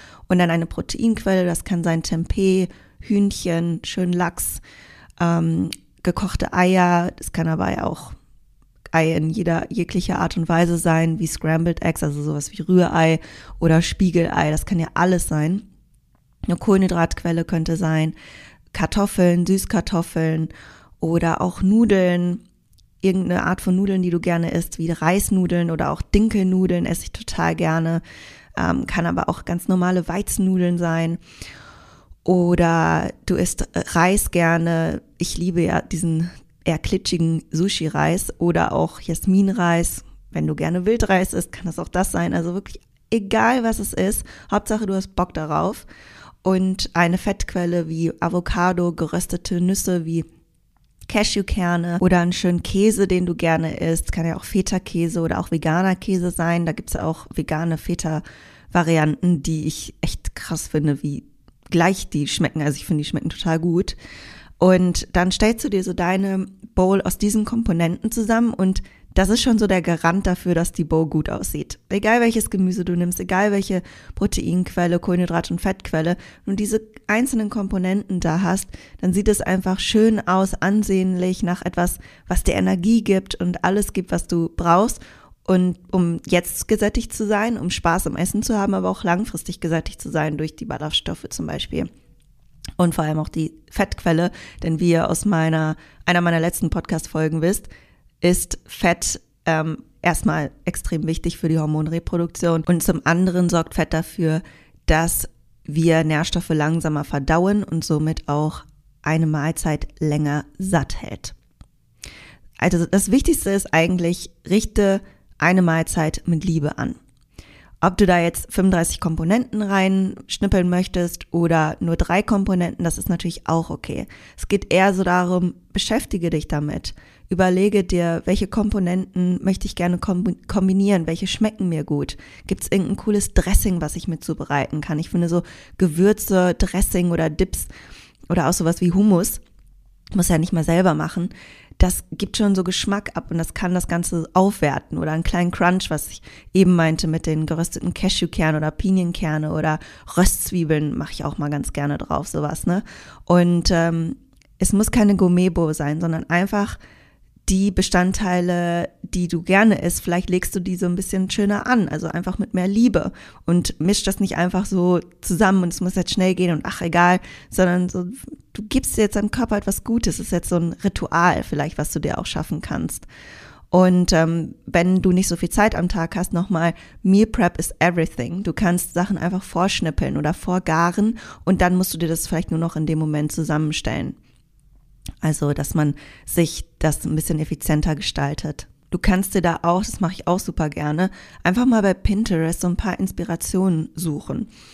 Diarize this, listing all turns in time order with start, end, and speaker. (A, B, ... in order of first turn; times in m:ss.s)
0:00.3-0:04.6 A
0:05.2-0:08.2 A
0:08.9-0:15.6 A
0:16.5-0:18.2 A
0:18.7-0:22.4 A
0:23.0-0:28.0 A
0:28.6-0:31.2 A
0:32.2-0:45.9 A
0:46.4-0:50.3 A
0:51.1-1:04.0 A
1:04.6-1:31.9 A
1:32.8-1:37.7 A
1:38.2-1:51.4 A
1:52.6-1:57.0 A
1:57.8-2:17.7 A
2:18.3-2:19.4 A
2:20.1-2:36.8 A
2:37.5-2:53.1 A
2:53.7-3:04.2 A
3:05.2-3:14.5 A